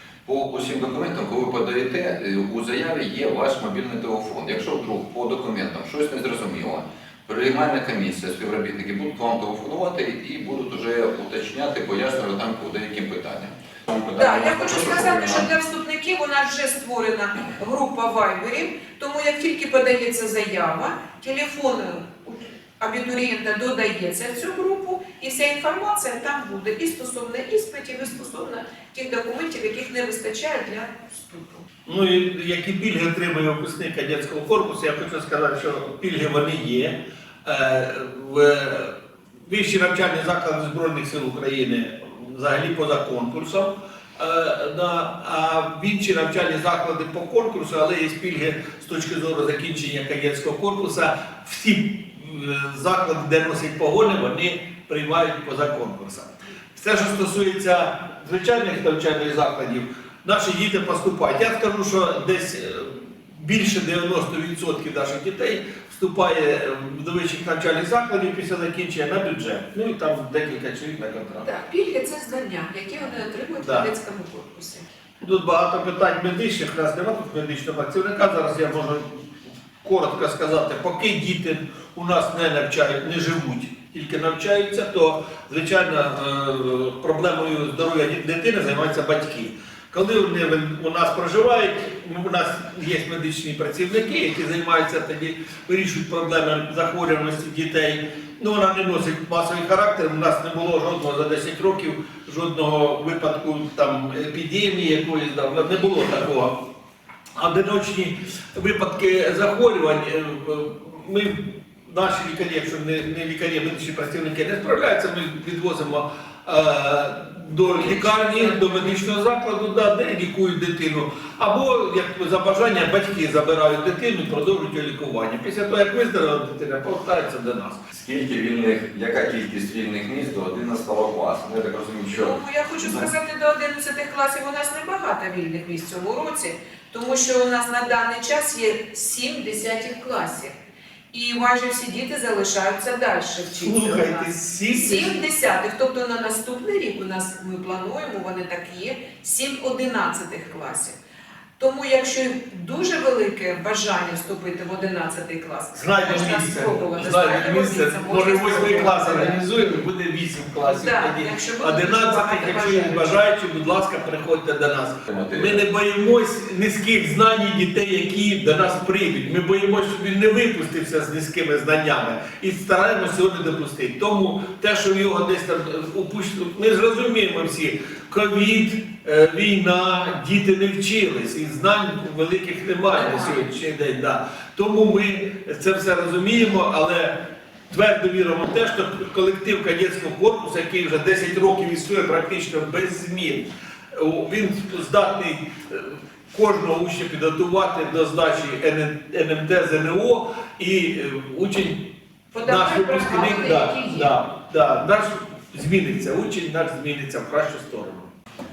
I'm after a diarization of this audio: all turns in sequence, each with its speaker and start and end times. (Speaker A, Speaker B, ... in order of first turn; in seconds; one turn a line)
Speaker A: 0.3-15.5
Speaker B: 14.1-31.6
Speaker C: 31.9-71.5
Speaker B: 71.4-74.8
Speaker C: 73.6-73.9
Speaker C: 75.2-79.3
Speaker C: 79.8-106.6
Speaker C: 107.4-127.9
Speaker B: 117.7-119.0
Speaker A: 127.9-133.1
Speaker B: 132.1-140.5
Speaker B: 141.1-151.0
Speaker C: 143.6-145.2
Speaker B: 151.6-159.4
Speaker C: 155.8-208.1
Speaker B: 160.6-163.1
Speaker A: 165.1-165.6
Speaker B: 182.9-183.4
Speaker B: 202.3-204.1